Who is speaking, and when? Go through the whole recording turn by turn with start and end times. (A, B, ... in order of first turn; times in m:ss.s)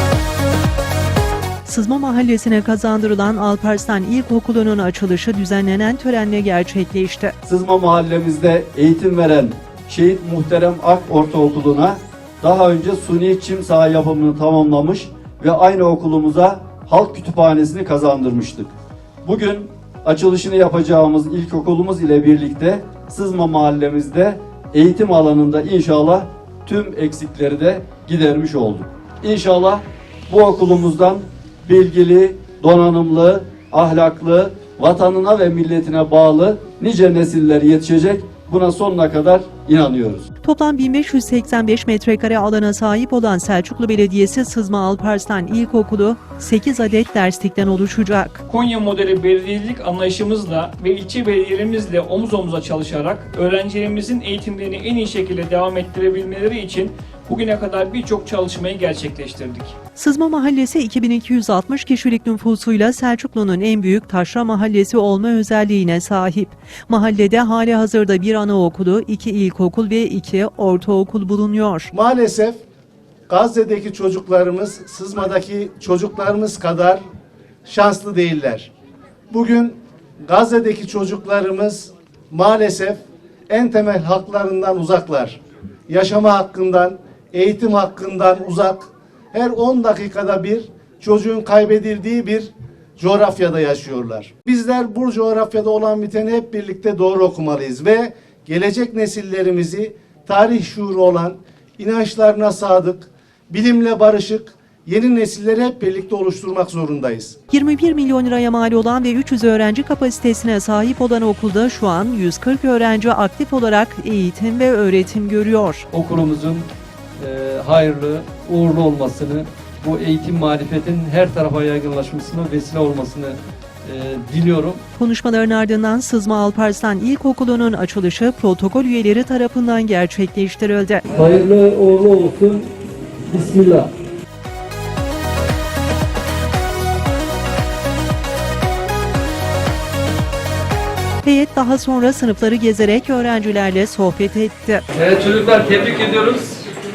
0:01.6-0:07.4 A
0:07.4-0:18.7 B
0:19.2-0:40.3 B
0:40.4-0:48.4 A
0:48.5-0:59.8 C
1:00.0-1:11.9 A
1:11.9-1:12.6 D
1:13.3-1:17.0 D
1:17.6-1:18.7 D
1:19.3-1:47.4 D
1:47.5-1:55.9 A
1:55.9-1:56.7 E
1:57.2-2:04.8 E
2:05.0-2:11.0 A
2:11.1-2:12.7 E
2:13.3-2:13.9 E
2:21.2-2:24.8 A
2:24.9-2:26.6 E